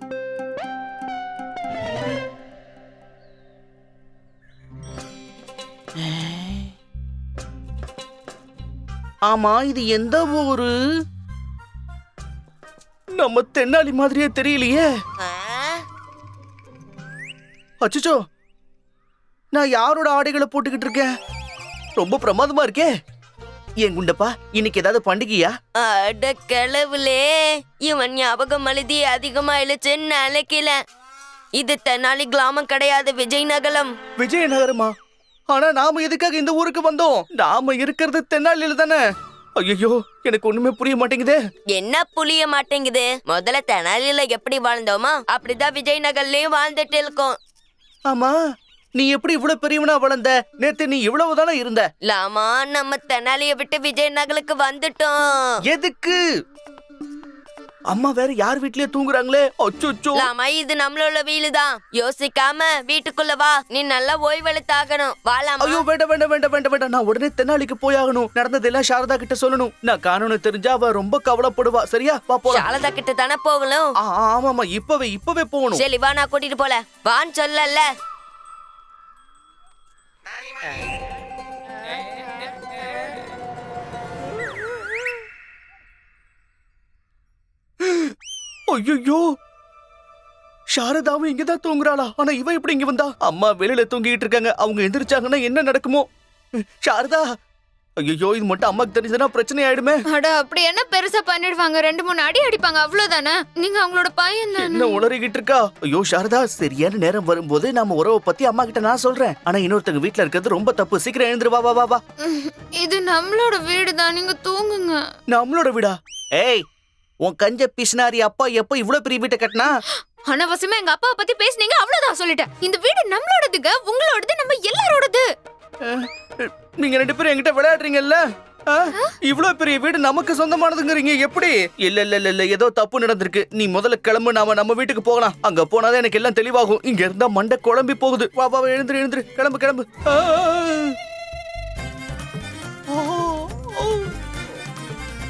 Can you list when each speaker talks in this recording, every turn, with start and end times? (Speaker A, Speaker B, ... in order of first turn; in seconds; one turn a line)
Speaker A: 6.0-6.7
Speaker A: 9.3-10.7
Speaker A: 13.2-14.8
Speaker B: 15.2-15.7
Speaker A: 17.8-18.2
Speaker A: 19.5-21.1
Speaker A: 22.0-22.9
Speaker A: 23.8-25.5
Speaker B: 25.8-30.8
Speaker B: 31.5-33.9
Speaker A: 34.2-34.9
Speaker A: 35.5-39.0
Speaker A: 39.6-41.4
Speaker B: 41.7-47.4
Speaker A: 48.1-48.3
Speaker A: 49.0-51.9
Speaker B: 52.0-55.6
Speaker A: 55.7-56.2
Speaker A: 57.9-60.3
Speaker B: 60.1-65.8
Speaker A: 65.6-72.7
Speaker B: 72.5-73.9
Speaker A: 74.0-75.9
Speaker B: 75.7-77.9
Speaker A: 87.9-88.1
Speaker A: 88.7-89.3
Speaker A: 90.7-96.1
Speaker A: 96.8-97.2
Speaker A: 98.0-100.0
Speaker C: 100.1-105.0
Speaker A: 104.6-112.0
Speaker C: 112.2-115.0
Speaker A: 115.3-116.6
Speaker A: 117.2-119.7
Speaker C: 120.2-125.3
Speaker A: 125.8-141.0
Speaker A: 142.9-144.1